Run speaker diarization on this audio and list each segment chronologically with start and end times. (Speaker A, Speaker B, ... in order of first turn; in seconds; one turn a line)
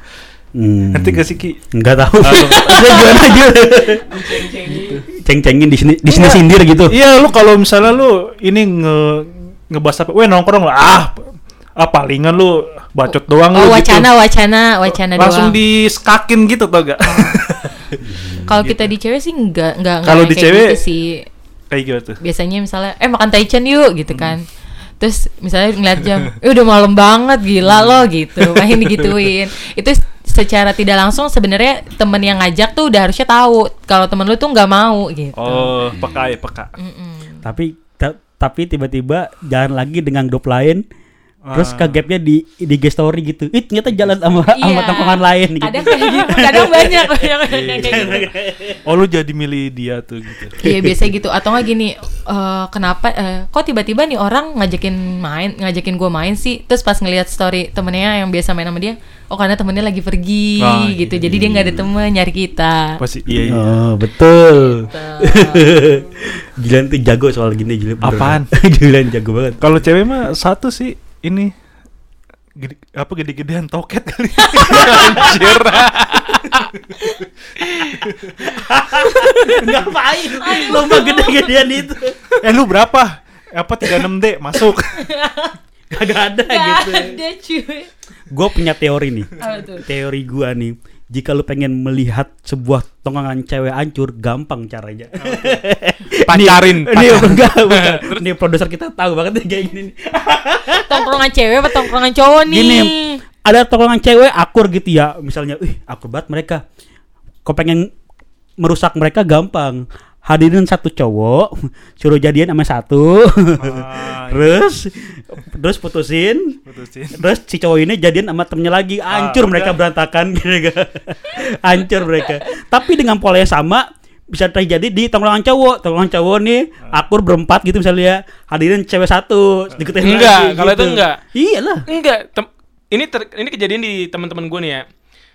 Speaker A: 0.6-4.3
Speaker B: 0.9-1.6
Speaker B: 2.2-3.1
Speaker C: 2.5-3.3
Speaker C: 4.0-5.0
Speaker B: 4.7-5.0
Speaker A: 5.1-7.0
Speaker B: 6.1-14.1
Speaker C: 13.1-15.6
Speaker B: 14.9-18.0
Speaker C: 17.1-17.4
Speaker A: 18.0-18.6
Speaker C: 18.4-21.2
Speaker B: 20.0-20.8
Speaker B: 21.7-22.2
Speaker C: 22.2-24.4
Speaker B: 24.1-24.4
Speaker C: 25.0-35.8
Speaker B: 27.7-28.9
Speaker B: 35.4-36.7
Speaker C: 36.8-37.4
Speaker A: 37.4-40.8
Speaker B: 41.5-42.0
Speaker A: 41.5-48.8
Speaker C: 44.5-48.3
Speaker B: 47.7-48.2
Speaker B: 48.8-50.6
Speaker C: 50.6-63.0
Speaker A: 50.6-50.9
Speaker B: 60.6-61.1
Speaker A: 61.1-61.9
Speaker B: 63.0-63.7
Speaker A: 63.5-69.6
Speaker C: 64.5-66.0
Speaker B: 68.0-68.5
Speaker B: 69.6-71.5
Speaker B: 72.6-75.6
Speaker C: 74.4-75.0
Speaker D: 74.7-76.7
Speaker A: 74.9-75.5
Speaker C: 77.0-77.3
Speaker D: 77.6-78.0
Speaker A: 78.4-82.3
Speaker D: 79.2-79.7
Speaker C: 80.4-81.5
Speaker B: 82.4-85.0
Speaker C: 85.0-85.5
Speaker A: 85.9-87.2
Speaker C: 86.5-87.9
Speaker A: 88.3-101.2
Speaker C: 89.4-89.8
Speaker B: 95.2-95.6
Speaker D: 96.3-98.2
Speaker C: 100.9-103.2
Speaker A: 102.5-102.9
Speaker A: 103.4-106.6
Speaker A: 107.5-107.9
Speaker A: 108.6-116.6
Speaker B: 113.6-114.6
Speaker B: 116.7-117.2
Speaker A: 117.2-131.8
Speaker B: 119.1-119.8
Speaker D: 130.0-131.2
Speaker D: 131.9-134.8